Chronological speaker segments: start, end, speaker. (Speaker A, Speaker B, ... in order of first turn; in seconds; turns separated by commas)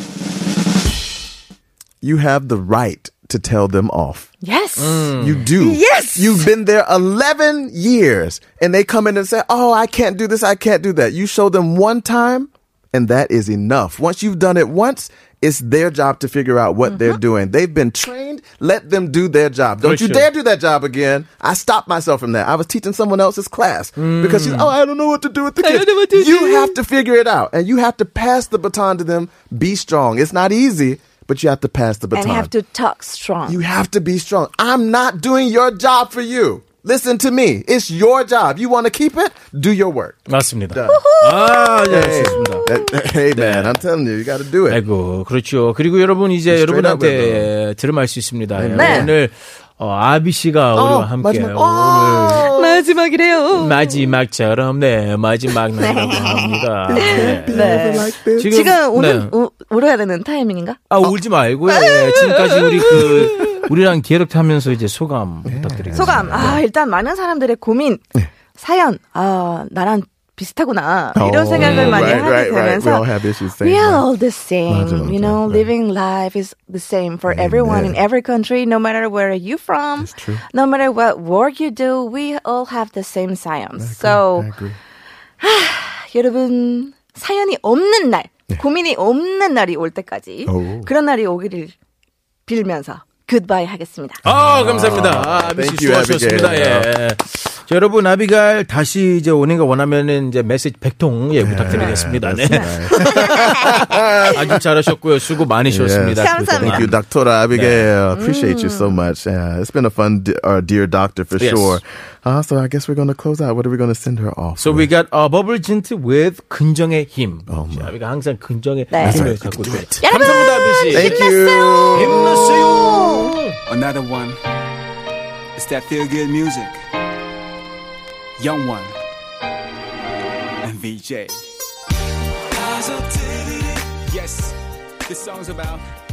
Speaker A: 2.0-4.3, Speaker B: 4.4-6.5, Speaker C: 4.8-5.5, Speaker A: 5.2-32.5, Speaker B: 16.8-17.2, Speaker C: 19.8-20.3, Speaker C: 24.0-24.7, Speaker C: 25.6-26.7, Speaker B: 32.1-33.6, Speaker A: 33.5-41.0, Speaker C: 40.3-42.6, Speaker B: 40.9-43.0, Speaker A: 41.9-44.8, Speaker C: 43.3-43.8, Speaker C: 44.7-52.5, Speaker A: 46.5-47.5, Speaker A: 48.5-49.1, Speaker B: 48.7-49.1, Speaker A: 50.7-52.8, Speaker B: 52.4-54.0, Speaker C: 53.5-59.3, Speaker B: 55.8-61.1, Speaker A: 56.9-58.5, Speaker C: 60.9-66.6, Speaker B: 61.7-63.5, Speaker A: 65.5-66.6, Speaker B: 65.9-73.1, Speaker A: 71.1-74.1, Speaker C: 71.6-72.2, Speaker B: 73.6-84.5, Speaker A: 74.7-75.7, Speaker A: 77.3-78.0, Speaker A: 80.0-80.4, Speaker A: 83.8-84.8, Speaker B: 85.4-91.7, Speaker A: 90.5-90.9, Speaker B: 92.5-94.2, Speaker A: 94.2-96.9, Speaker C: 94.2-107.0, Speaker A: 101.3-104.4, Speaker B: 101.7-104.3, Speaker A: 105.7-114.9, Speaker B: 106.2-106.9, Speaker C: 107.5-107.9, Speaker B: 108.1-109.0, Speaker C: 111.4-111.8, Speaker C: 114.6-121.3, Speaker A: 117.5-117.9, Speaker B: 118.9-119.3, Speaker A: 119.0-123.0, Speaker B: 120.0-123.3, Speaker C: 121.9-123.5, Speaker D: 123.7-124.4, Speaker D: 125.5-126.8, Speaker D: 128.4-129.0, Speaker D: 130.6-131.4, Speaker D: 132.5-135.9